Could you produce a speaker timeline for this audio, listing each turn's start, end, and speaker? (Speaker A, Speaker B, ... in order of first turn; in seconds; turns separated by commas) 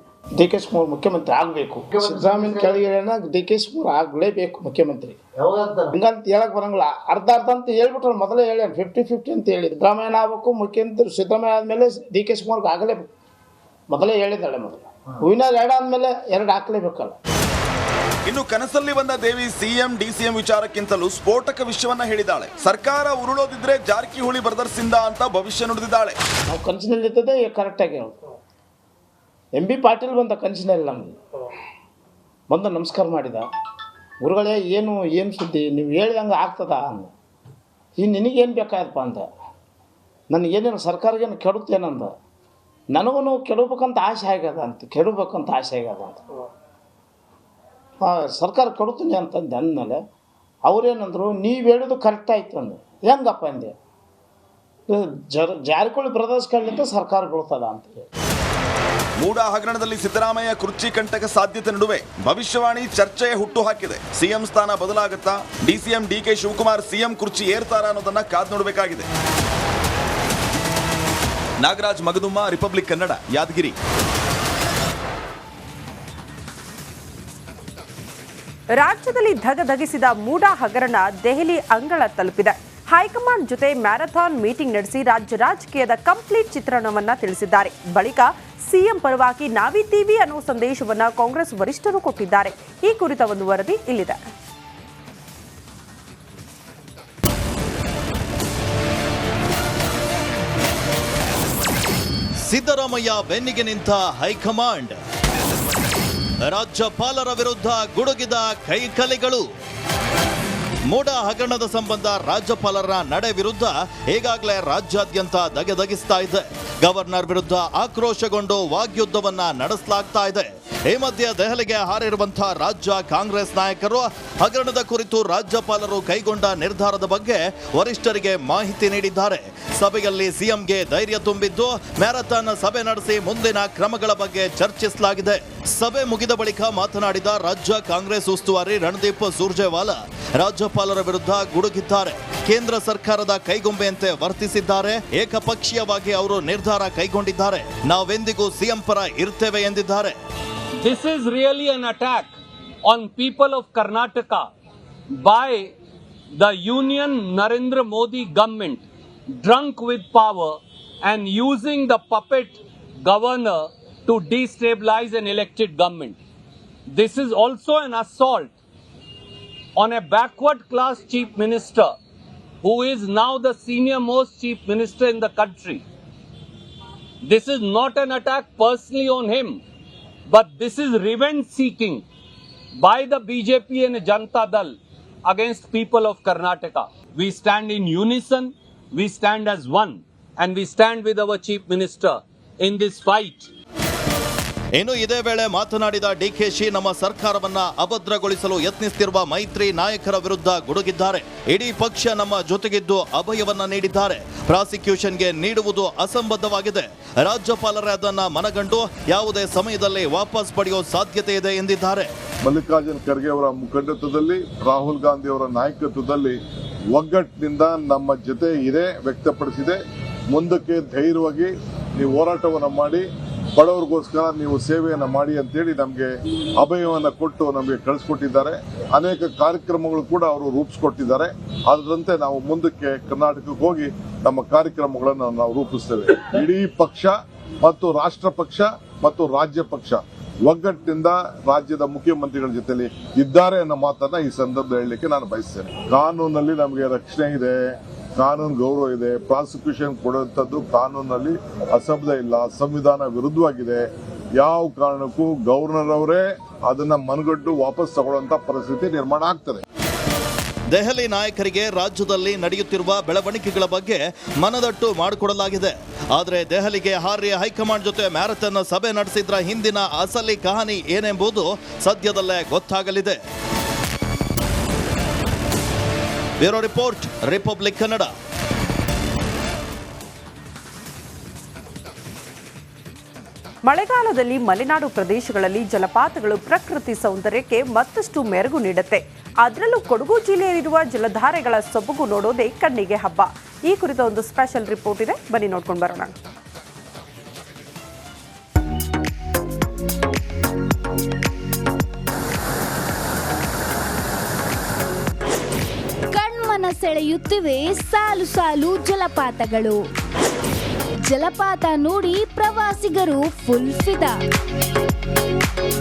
Speaker A: 0.4-5.2, Speaker A: 5.9-13.1, Speaker A: 13.9-17.2, Speaker B: 18.2-26.2, Speaker A: 26.5-28.2, Speaker A: 29.6-31.1, Speaker A: 32.5-33.5, Speaker A: 34.2-37.1, Speaker A: 38.0-39.3, Speaker A: 40.3-42.1, Speaker A: 42.9-46.2, Speaker A: 48.0-50.0, Speaker A: 50.6-53.7, Speaker A: 54.9-58.1, Speaker B: 59.2-69.1, Speaker B: 71.6-73.8, Speaker C: 78.8-94.2, Speaker D: 102.5-105.0, Speaker D: 106.5-109.4, Speaker D: 110.9-150.2, Speaker E: 150.8-154.5, Speaker E: 155.2-155.7, Speaker E: 156.3-166.2, Speaker E: 166.9-168.6, Speaker E: 169.8-171.9, Speaker E: 172.6-175.8, Speaker E: 177.2-179.6, Speaker E: 180.3-182.1, Speaker E: 182.8-193.5, Speaker D: 194.8-212.1, Speaker F: 212.4-216.4, Speaker F: 216.9-219.8, Speaker F: 220.3-223.0, Speaker F: 223.6-247.6, Speaker F: 248.2-253.8, Speaker F: 254.4-259.6, Speaker D: 260.7-273.2, Speaker D: 276.4-278.1, Speaker C: 283.6-296.2, Speaker G: 306.1-309.8, Speaker G: 311.1-314.2